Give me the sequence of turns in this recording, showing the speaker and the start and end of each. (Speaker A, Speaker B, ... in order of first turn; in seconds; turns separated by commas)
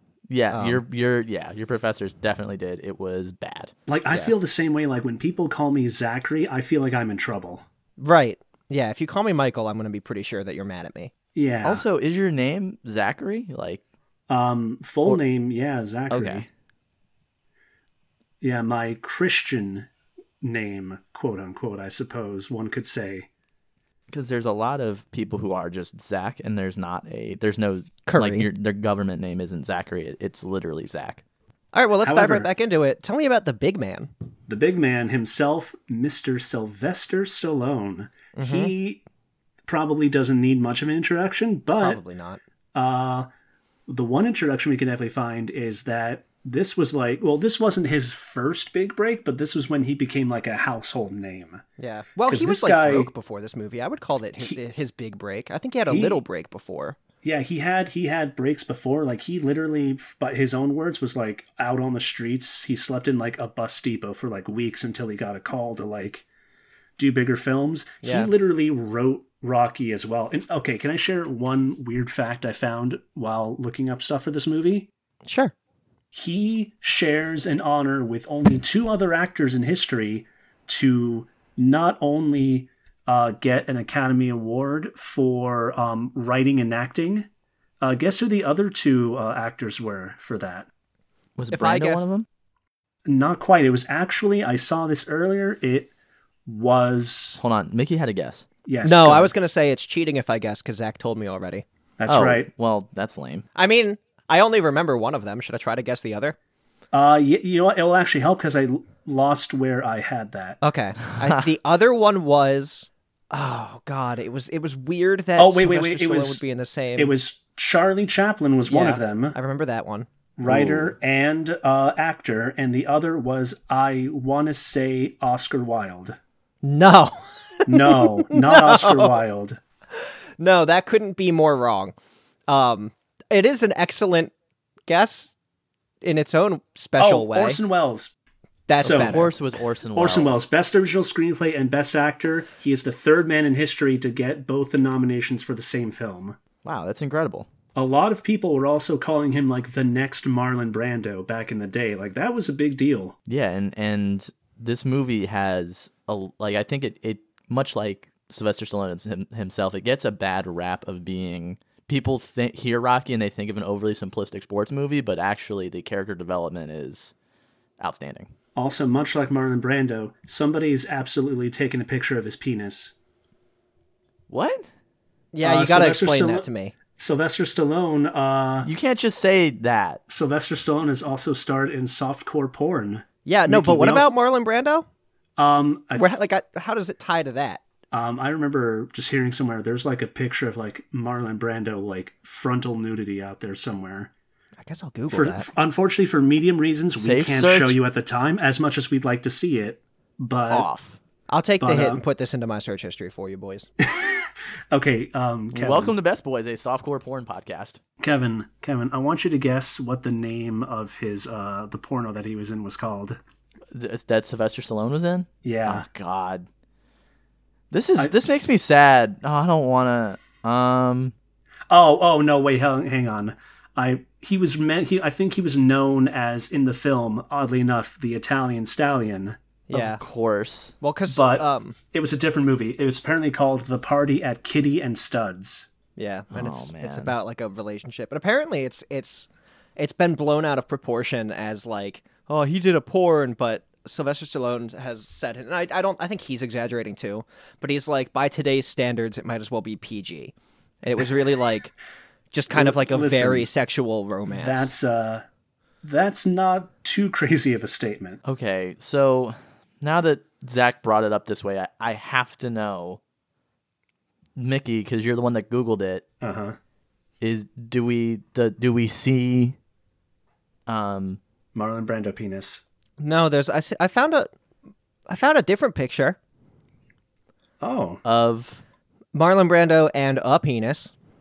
Speaker A: 0.3-3.7, Speaker B: 0.5-0.8, Speaker C: 3.9-7.7, Speaker B: 8.0-11.1, Speaker C: 11.3-11.8, Speaker A: 11.6-13.8, Speaker C: 14.3-16.5, Speaker A: 16.1-16.4, Speaker C: 18.4-19.9, Speaker C: 20.4-23.3, Speaker A: 24.1-31.2, Speaker B: 28.1-28.5, Speaker B: 31.7-34.1, Speaker C: 32.0-32.5, Speaker C: 34.5-39.0, Speaker B: 38.4-38.7, Speaker C: 39.7-42.0, Speaker B: 41.8-42.4, Speaker C: 42.8-43.3, Speaker C: 43.9-51.6, Speaker B: 51.8-57.0, Speaker C: 52.3-53.1, Speaker C: 55.9-56.2, Speaker C: 57.2-66.3, Speaker C: 67.0-74.9, Speaker B: 68.0-68.3, Speaker B: 75.3-75.5, Speaker C: 76.1-87.3, Speaker C: 87.8-90.7, Speaker A: 91.4-92.3, Speaker B: 91.5-92.0, Speaker C: 93.1-95.9, Speaker C: 96.5-97.4, Speaker A: 97.4-98.5, Speaker C: 98.7-99.3, Speaker B: 98.8-101.6, Speaker C: 102.0-102.5, Speaker A: 102.1-103.5, Speaker B: 103.5-106.4, Speaker C: 106.9-110.6, Speaker B: 110.6-117.1, Speaker A: 111.2-111.5, Speaker C: 115.4-116.4, Speaker C: 117.0-119.4, Speaker B: 118.7-120.1, Speaker C: 120.4-126.2, Speaker A: 120.5-120.9, Speaker B: 126.6-129.2, Speaker C: 127.7-129.6, Speaker B: 130.4-131.9, Speaker B: 132.5-134.3, Speaker B: 134.9-135.3, Speaker B: 136.0-137.6, Speaker C: 137.0-138.1, Speaker B: 138.7-139.3, Speaker A: 138.8-140.4, Speaker C: 138.8-139.3, Speaker C: 139.9-146.4, Speaker A: 146.7-147.5, Speaker C: 147.8-153.2, Speaker A: 153.3-167.1, Speaker A: 167.8-168.3, Speaker C: 168.6-172.9, Speaker A: 174.3-174.7, Speaker B: 175.3-176.7, Speaker C: 175.4-178.7, Speaker A: 178.7-180.0, Speaker C: 180.1-184.1, Speaker B: 183.3-184.9, Speaker C: 185.4-186.2, Speaker B: 186.0-187.6, Speaker C: 187.9-194.1, Speaker B: 194.6-195.5, Speaker C: 195.1-200.7, Speaker A: 197.0-197.8, Speaker A: 200.5-201.0, Speaker B: 201.3-203.7, Speaker C: 201.6-202.0, Speaker C: 203.8-205.9, Speaker A: 205.5-207.8, Speaker C: 208.0-213.2, Speaker A: 213.7-216.5, Speaker C: 215.4-215.8, Speaker A: 217.7-221.1, Speaker C: 221.7-229.4, Speaker B: 229.7-230.0, Speaker A: 229.7-230.8, Speaker B: 230.8-231.8, Speaker C: 231.1-235.7, Speaker B: 236.0-251.7, Speaker A: 236.3-237.1, Speaker B: 252.3-254.7, Speaker C: 252.5-253.5, Speaker C: 254.3-255.2, Speaker C: 255.8-258.2, Speaker A: 258.2-263.0, Speaker A: 264.4-266.0, Speaker C: 266.2-266.6, Speaker A: 267.2-269.6, Speaker A: 270.7-271.2, Speaker C: 271.6-272.6, Speaker B: 273.0-274.3, Speaker B: 275.1-276.2, Speaker C: 277.6-278.0, Speaker A: 278.1-278.6, Speaker B: 279.1-280.9